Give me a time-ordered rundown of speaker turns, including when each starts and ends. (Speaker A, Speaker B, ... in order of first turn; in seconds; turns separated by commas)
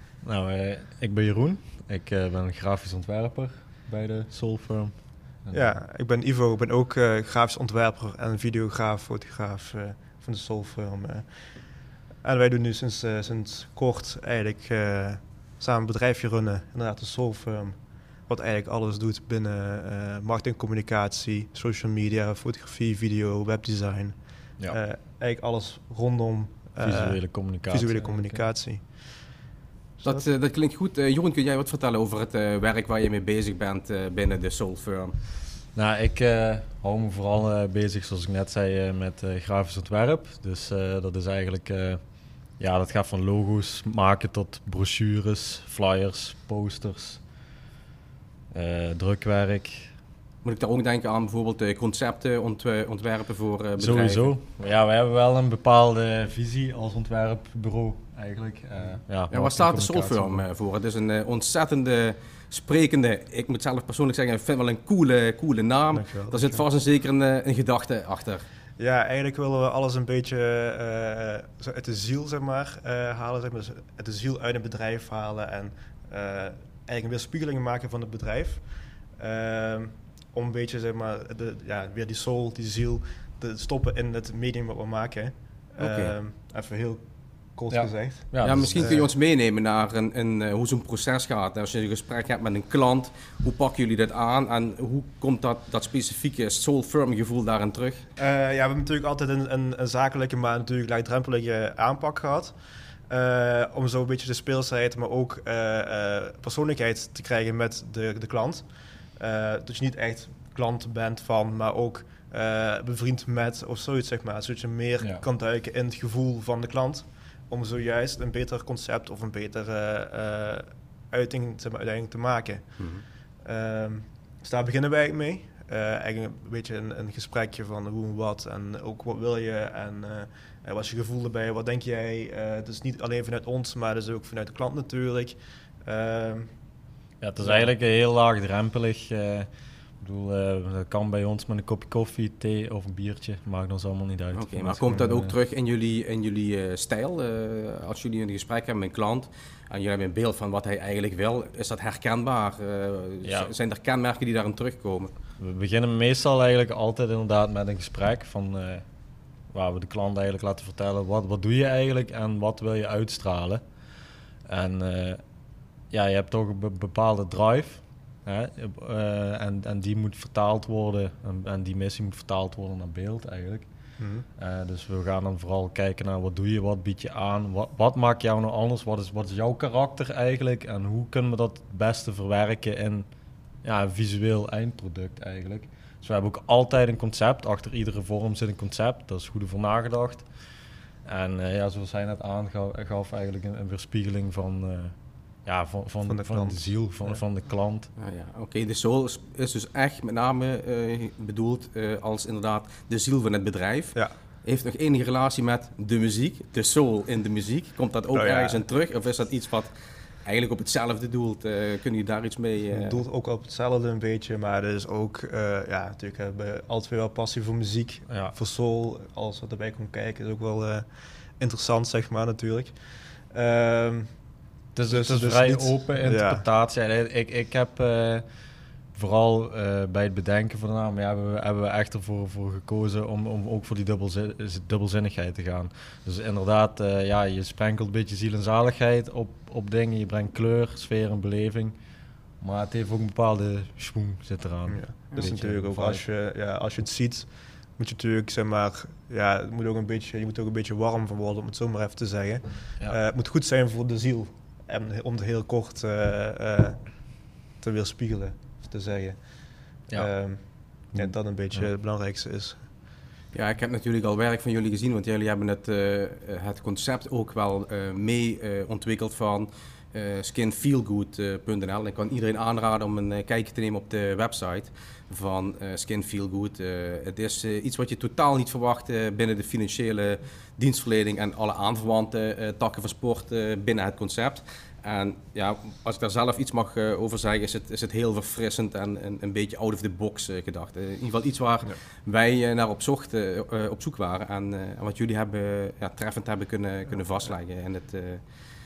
Speaker A: 0.2-5.8, Speaker B: 5.5-28.9, Speaker A: 26.8-28.5, Speaker B: 30.0-30.3, Speaker C: 30.0-35.1, Speaker A: 35.8-42.0, Speaker A: 42.5-47.2, Speaker A: 48.5-49.9, Speaker C: 50.4-54.3, Speaker A: 53.8-60.5, Speaker C: 59.3-68.4, Speaker B: 65.9-66.7, Speaker B: 68.8-89.1, Speaker C: 85.8-86.2, Speaker A: 87.7-88.9, Speaker C: 88.4-98.0, Speaker B: 98.2-102.6, Speaker B: 103.1-122.9, Speaker C: 122.8-123.0, Speaker B: 123.4-136.5, Speaker A: 137.2-139.5, Speaker A: 140.0-145.4, Speaker C: 144.3-155.1, Speaker A: 153.2-153.5, Speaker A: 155.4-158.8, Speaker A: 159.5-163.6, Speaker A: 164.5-165.2, Speaker A: 165.9-173.7, Speaker B: 174.0-174.3, Speaker A: 174.4-183.1, Speaker A: 183.6-190.3, Speaker A: 191.1-194.9, Speaker A: 195.5-197.9, Speaker B: 196.1-197.2, Speaker C: 198.0-209.7, Speaker B: 208.1-208.6, Speaker C: 210.2-213.0, Speaker B: 212.7-222.8, Speaker A: 218.1-218.3, Speaker B: 223.3-224.1, Speaker A: 224.8-228.2, Speaker B: 224.9-226.4, Speaker A: 228.9-241.7, Speaker A: 242.4-246.0, Speaker B: 244.7-262.7, Speaker A: 259.9-261.7, Speaker C: 263.3-298.2